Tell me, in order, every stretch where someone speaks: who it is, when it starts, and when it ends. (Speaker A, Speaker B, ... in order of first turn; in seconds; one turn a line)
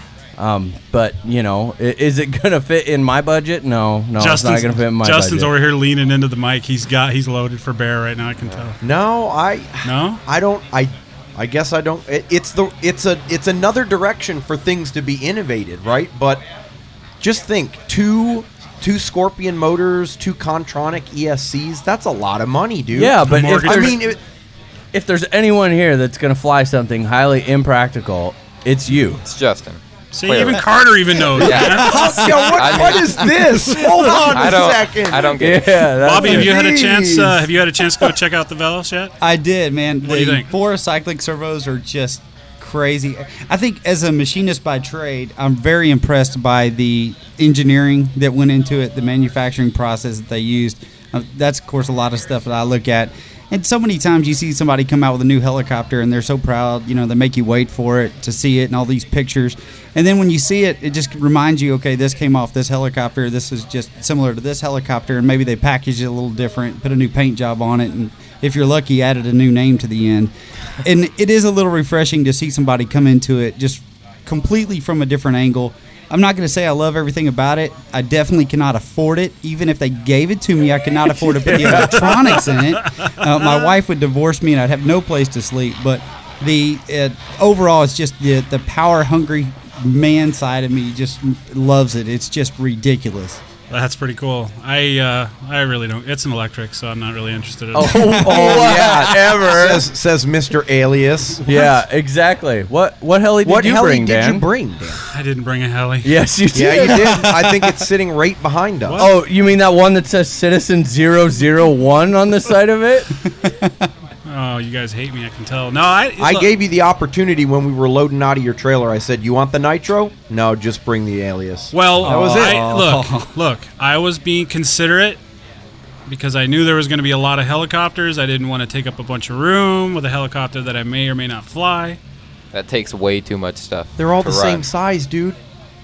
Speaker A: 0.4-5.5
Speaker B: 4.2-8.8
Speaker C: 8.8-16.4
Speaker B: 9.8-10.2
Speaker C: 17.2-24.2
Speaker A: 22.9-24.0
Speaker B: 23.2-24.0
Speaker A: 24.9-29.2
Speaker D: 29.2-30.7
Speaker B: 30.1-34.3
Speaker D: 31.4-33.4
Speaker C: 31.4-35.6
Speaker D: 34.2-35.9
Speaker A: 35.4-36.5
Speaker B: 36.0-39.1
Speaker C: 36.2-37.4
Speaker E: 39.2-93.4
Speaker B: 40.0-40.5
Speaker A: 81.3-82.1
Speaker B: 81.7-83.7
Speaker B: 93.7-98.6
Speaker A: 97.7-99.9
Speaker C: 98.2-101.7
Speaker A: 101.5-104.5
Speaker C: 103.4-105.0
Speaker B: 105.1-106.2
Speaker A: 106.0-107.6
Speaker C: 106.5-109.1
Speaker E: 107.0-107.6
Speaker B: 108.9-109.1
Speaker A: 109.0-113.2
Speaker E: 113.4-113.9
Speaker B: 114.2-116.5
Speaker C: 116.2-122.6
Speaker B: 121.7-125.2
Speaker E: 122.0-123.3
Speaker B: 126.1-132.0
Speaker D: 132.5-134.7
Speaker C: 134.0-135.4